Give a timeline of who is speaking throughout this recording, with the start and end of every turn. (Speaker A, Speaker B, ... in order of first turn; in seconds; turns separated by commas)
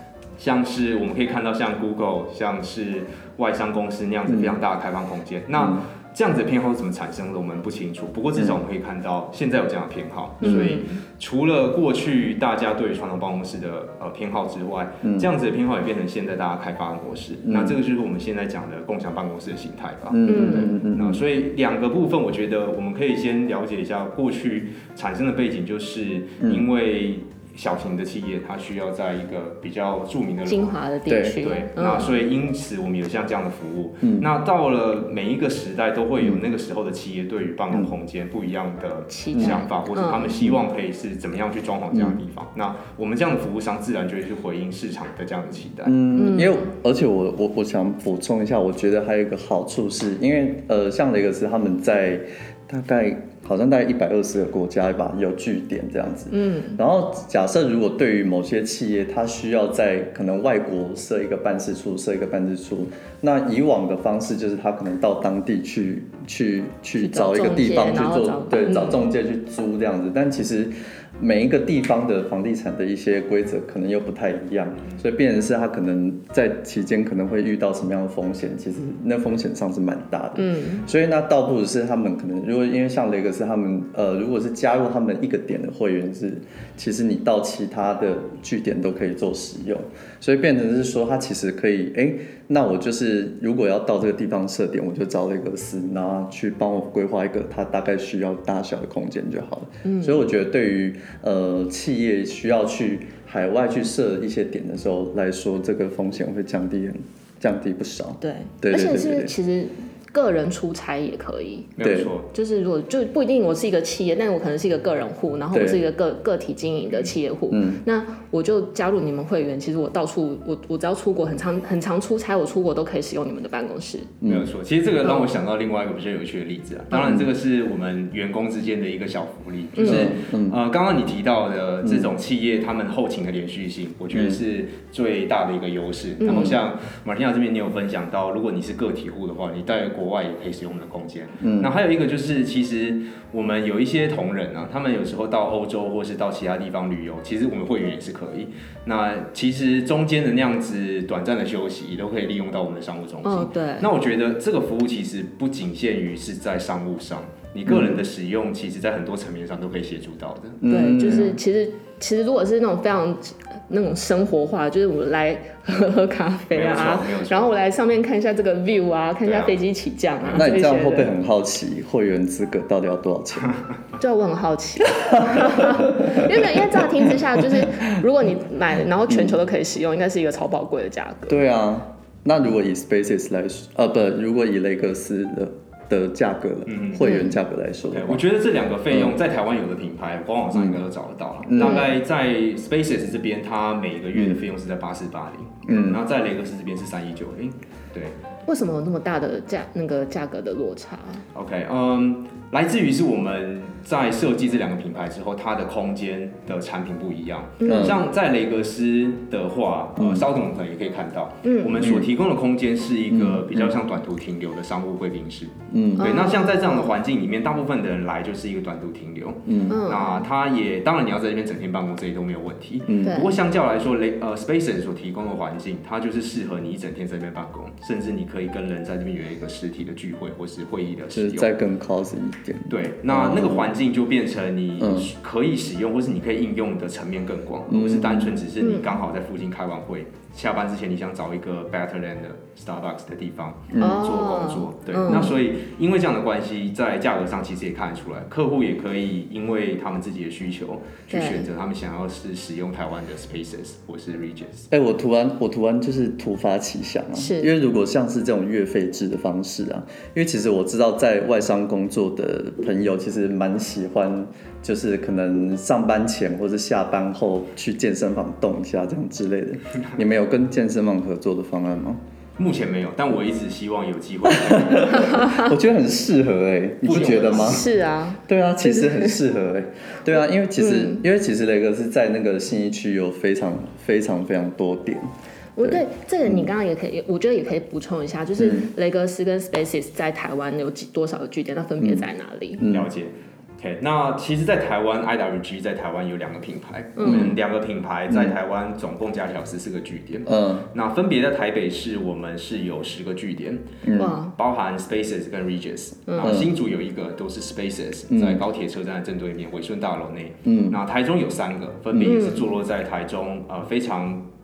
Speaker A: 0.4-30.8, Speaker B: 4.3-4.6, Speaker B: 5.5-5.8, Speaker C: 10.4-11.0, Speaker B: 10.4-10.8, Speaker B: 15.0-15.3, Speaker B: 17.4-17.8, Speaker B: 20.1-21.2, Speaker C: 20.3-20.7, Speaker C: 30.5-32.1, Speaker B: 31.1-31.4, Speaker A: 31.4-46.0, Speaker B: 34.0-34.3, Speaker C: 39.1-40.4, Speaker B: 39.3-39.6, Speaker B: 41.9-42.2, Speaker B: 45.9-109.3, Speaker C: 46.1-46.6, Speaker C: 56.3-56.8, Speaker C: 67.0-69.1, Speaker C: 80.4-80.8, Speaker C: 99.8-100.2, Speaker C: 108.2-111.7, Speaker A: 111.8-112.3, Speaker B: 111.8-112.1, Speaker C: 112.3-124.1, Speaker B: 115.5-115.8, Speaker B: 117.5-117.8, Speaker B: 124.2-124.5, Speaker A: 124.3-160.6, Speaker C: 125.0-125.3, Speaker B: 126.9-127.3, Speaker C: 129.8-130.1, Speaker B: 129.8-130.6, Speaker B: 131.8-132.1, Speaker B: 134.1-134.4, Speaker C: 136.2-136.6, Speaker B: 141.4-141.7, Speaker C: 153.2-153.9, Speaker B: 157.7-158.0, Speaker B: 160.6-161.4, Speaker C: 160.7-171.1, Speaker A: 166.5-167.5, Speaker A: 169.2-169.6, Speaker A: 170.2-170.5, Speaker B: 170.3-173.5, Speaker C: 174.0-181.4, Speaker B: 175.0-177.8, Speaker B: 179.1-179.4, Speaker B: 181.3-188.2, Speaker A: 186.7-187.0, Speaker C: 187.0-187.4, Speaker A: 187.9-198.2, Speaker B: 188.9-189.2, Speaker B: 190.5-190.8, Speaker B: 191.4-191.9, Speaker C: 191.6-191.9, Speaker B: 195.7-196.0, Speaker C: 198.5-201.2, Speaker A: 201.3-231.5, Speaker C: 207.6-208.0, Speaker B: 207.7-208.0, Speaker B: 210.0-210.3, Speaker C: 211.4-211.8, Speaker B: 211.8-212.1, Speaker B: 213.1-213.8, Speaker B: 215.7-216.2, Speaker C: 216.0-216.9, Speaker B: 219.5-219.8, Speaker C: 219.7-220.2, Speaker B: 222.9-223.3, Speaker C: 223.0-223.3, Speaker B: 231.1-233.7, Speaker A: 232.7-254.7, Speaker B: 234.8-235.1, Speaker B: 237.7-238.4, Speaker C: 238.6-238.9, Speaker B: 243.7-244.0, Speaker C: 243.8-245.3, Speaker B: 245.1-245.4, Speaker C: 251.1-251.5, Speaker B: 254.7-272.0, Speaker C: 257.2-257.5, Speaker A: 272.4-275.3, Speaker B: 274.3-277.7, Speaker C: 274.9-275.5, Speaker A: 276.8-277.6, Speaker C: 276.9-279.2, Speaker B: 278.3-286.5, Speaker C: 280.6-281.0, Speaker C: 285.6-292.6, Speaker B: 288.4-288.7, Speaker B: 292.6-292.9, Speaker A: 292.7-303.8, Speaker C: 297.0-297.4, Speaker B: 297.0-297.4, Speaker B: 298.1-298.4, Speaker B: 300.3-300.7, Speaker B: 303.8-304.1, Speaker C: 304.0-304.3, Speaker A: 304.4-314.2, Speaker C: 306.1-306.4, Speaker B: 306.2-306.5, Speaker B: 308.1-308.4, Speaker B: 310.4-310.8, Speaker B: 311.9-312.2, Speaker C: 312.0-312.5